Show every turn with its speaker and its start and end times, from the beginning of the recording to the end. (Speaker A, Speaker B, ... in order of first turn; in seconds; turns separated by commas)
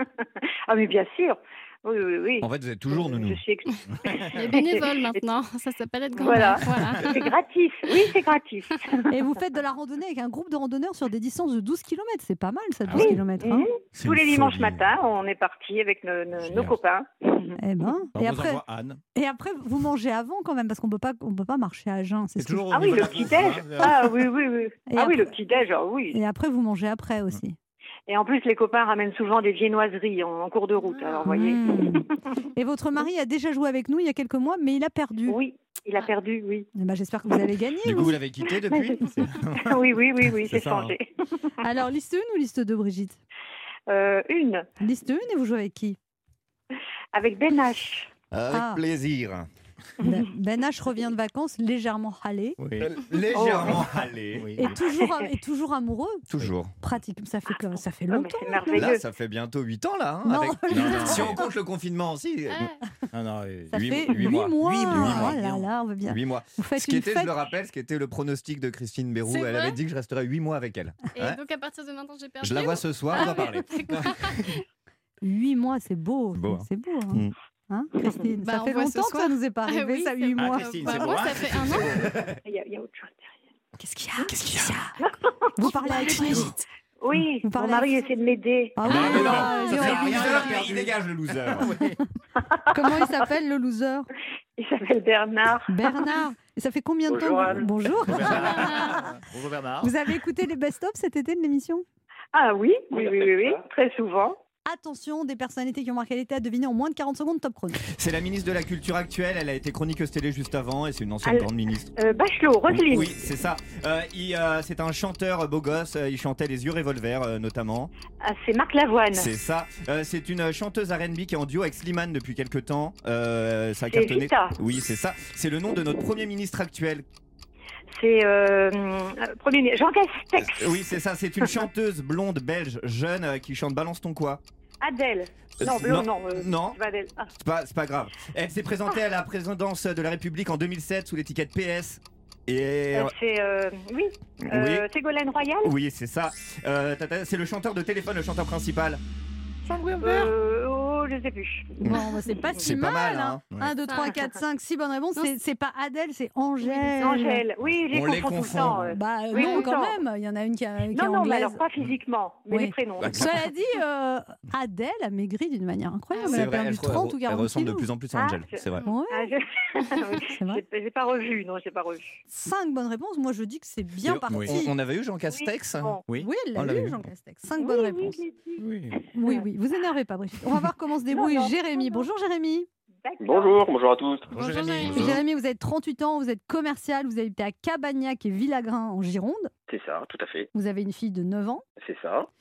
Speaker A: 0.7-5.2, Speaker B: 2.4-3.4, Speaker C: 4.3-7.3, Speaker A: 6.2-9.1, Speaker D: 9.1-13.7, Speaker A: 12.9-17.6, Speaker D: 17.6-18.6, Speaker E: 18.1-19.0, Speaker D: 19.1-23.1, Speaker E: 22.4-24.2, Speaker A: 22.7-26.2, Speaker D: 24.9-25.3, Speaker D: 26.1-27.6, Speaker A: 28.1-32.2, Speaker C: 30.9-31.2, Speaker D: 31.2-35.4, Speaker A: 35.3-36.7, Speaker D: 36.8-38.2, Speaker B: 37.8-39.6, Speaker A: 38.7-39.0, Speaker A: 39.5-41.1, Speaker B: 40.5-40.9, Speaker D: 41.6-43.2, Speaker A: 43.9-44.7, Speaker D: 44.8-46.0, Speaker A: 47.1-48.1, Speaker B: 48.3-49.5, Speaker D: 48.5-48.8, Speaker D: 50.0-52.6, Speaker E: 52.6-53.0, Speaker B: 52.8-54.7, Speaker A: 53.3-53.9, Speaker E: 54.3-54.7, Speaker D: 54.6-56.2, Speaker B: 56.3-56.7, Speaker D: 56.8-58.9, Speaker A: 58.1-59.0, Speaker B: 58.7-62.7, Speaker D: 60.2-61.4, Speaker E: 60.7-61.4, Speaker C: 62.5-62.8, Speaker E: 63.1-65.6, Speaker D: 63.7-67.3, Speaker B: 63.7-65.4, Speaker B: 66.1-71.4, Speaker C: 69.3-69.8, Speaker C: 71.1-74.6, Speaker B: 72.4-74.4, Speaker D: 75.2-81.1, Speaker B: 76.3-77.3, Speaker C: 78.4-82.0, Speaker E: 80.4-82.2, Speaker B: 82.0-82.4, Speaker A: 82.5-83.4, Speaker D: 83.8-85.0, Speaker E: 84.3-84.8, Speaker A: 85.0-86.5, Speaker D: 85.5-86.6, Speaker C: 86.0-86.5, Speaker A: 87.0-89.1, Speaker D: 87.4-88.0, Speaker D: 88.8-90.4, Speaker B: 88.8-91.7, Speaker E: 88.9-92.0, Speaker D: 92.7-94.1, Speaker A: 94.6-96.0, Speaker D: 95.7-99.0, Speaker F: 97.1-97.7, Speaker E: 98.0-99.9, Speaker D: 99.8-101.8, Speaker A: 102.3-104.4, Speaker F: 102.9-103.6, Speaker D: 104.7-107.8, Speaker B: 107.9-111.9, Speaker A: 111.2-113.2, Speaker B: 112.7-117.9, Speaker A: 118.2-119.3, Speaker B: 119.1-127.0, Speaker A: 123.9-124.5, Speaker A: 128.0-130.8, Speaker B: 130.4-134.4, Speaker A: 134.8-137.3, Speaker B: 135.6-136.8, Speaker B: 137.4-143.1, Speaker A: 142.9-145.7, Speaker B: 144.4-144.9, Speaker B: 145.6-149.0, Speaker E: 149.7-150.3, Speaker A: 150.0-152.0, Speaker D: 151.8-157.4, Speaker B: 152.6-153.5, Speaker C: 153.9-154.1, Speaker A: 156.6-160.0, Speaker B: 157.9-158.8, Speaker D: 158.8-161.6, Speaker C: 159.4-159.7, Speaker A: 160.9-163.3, Speaker D: 162.5-167.9, Speaker B: 163.0-163.3, Speaker C: 166.1-166.4, Speaker B: 166.3-168.9, Speaker A: 168.1-168.6, Speaker D: 168.8-169.3, Speaker A: 169.1-172.2, Speaker D: 170.3-170.6, Speaker D: 172.3-174.7, Speaker B: 174.1-176.0, Speaker A: 175.3-176.0, Speaker D: 176.2-178.2, Speaker B: 176.6-177.0, Speaker A: 177.6-178.7, Speaker E: 178.6-179.0, Speaker D: 179.1-182.7, Speaker A: 179.2-179.5, Speaker A: 181.1-182.1, Speaker A: 183.0-183.7, Speaker F: 183.2-184.3, Speaker E: 184.3-185.2, Speaker C: 184.3-185.1, Speaker D: 184.9-189.5, Speaker F: 189.7-190.5, Speaker D: 190.5-191.6, Speaker F: 191.8-192.3